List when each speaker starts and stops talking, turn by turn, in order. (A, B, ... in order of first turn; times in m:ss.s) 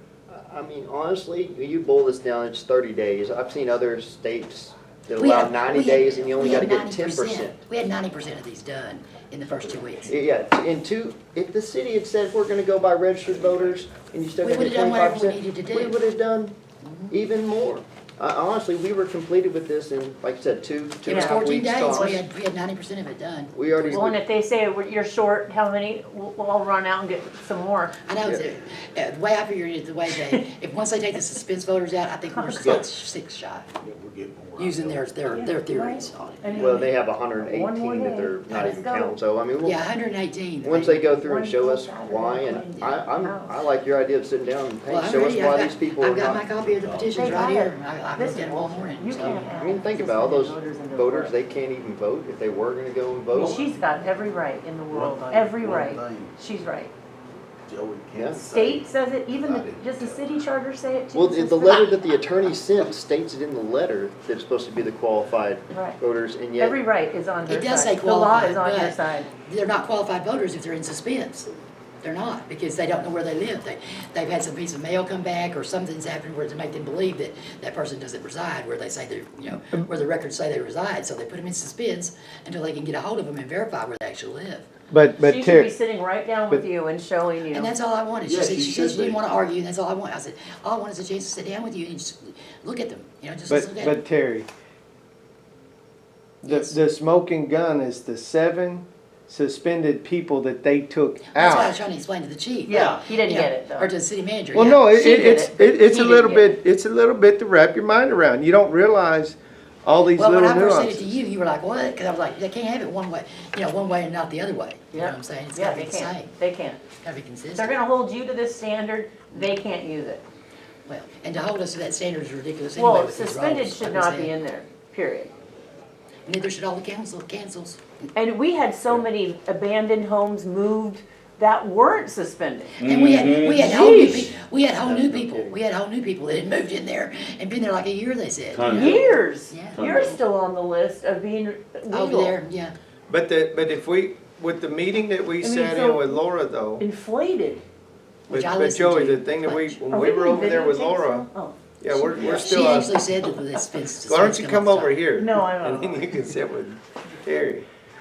0:00.3-0:07.6 A
0:05.2-0:10.1 B
0:10.1-0:16.6 A
0:14.4-0:16.0 B
0:16.8-0:17.1 B
0:17.1-0:22.2 A
0:21.0-0:23.5 B
0:21.0-0:22.2 C
0:23.5-0:24.2 A
0:23.9-0:28.0 C
0:28.0-0:33.7 B
0:30.2-0:30.4 C
0:32.3-0:32.8 C
0:32.6-0:32.9 D
0:33.8-0:35.5 D
0:34.6-0:36.7 B
0:35.3-0:39.2 C
0:36.6-0:39.8 A
0:38.5-0:38.8 B
0:39.6-0:41.0 B
0:40.6-0:46.4 A
0:41.0-0:43.5 C
0:44.9-0:49.4 B
0:46.5-0:47.5 D
0:47.1-0:51.3 C
0:49.2-0:53.6 A
0:53.3-0:56.9 C
0:53.3-0:53.6 D
0:54.9-0:56.3 D
0:57.7-1:00.4 D
0:58.1-0:58.4 A
0:58.3-1:02.1 C
1:01.1-1:06.8 A
1:05.7-1:06.0 C
1:06.6-1:09.3 C
1:07.5-1:11.5 B
1:12.0-1:24.6 B
1:24.9-1:25.7 E
1:25.2-1:27.7 C
1:27.5-1:34.0 B
1:28.2-1:29.2 D
1:33.5-1:34.5 E
1:36.4-1:41.7 E
1:36.4-1:36.8 B
1:41.3-1:44.8 B
1:42.6-1:43.9 C
1:44.5-1:51.1 E
1:44.9-1:46.6 C
1:50.1-1:56.3 B
1:54.9-1:56.8 C
1:57.0-1:57.8 B
1:57.5-2:00.2 C
2:00.8-2:04.3 B
2:02.7-2:05.3 C
2:06.2-2:07.8 B
2:08.1-2:12.8 C
2:12.8-2:14.2 D
2:12.8-2:19.8 B
2:13.5-2:14.3 C
2:15.0-2:15.4 D
2:18.5-2:20.2 D
2:18.7-2:22.4 C
2:21.9-2:22.7 B
2:23.1-2:26.8 E
2:25.4-2:26.2 C
2:26.8-2:27.6 C
2:28.3-2:29.8 B
2:28.3-2:31.3 E
2:29.9-2:31.6 C
2:31.8-2:33.0 E
2:31.9-2:35.0 B
2:34.0-2:37.6 E
2:35.2-2:36.3 C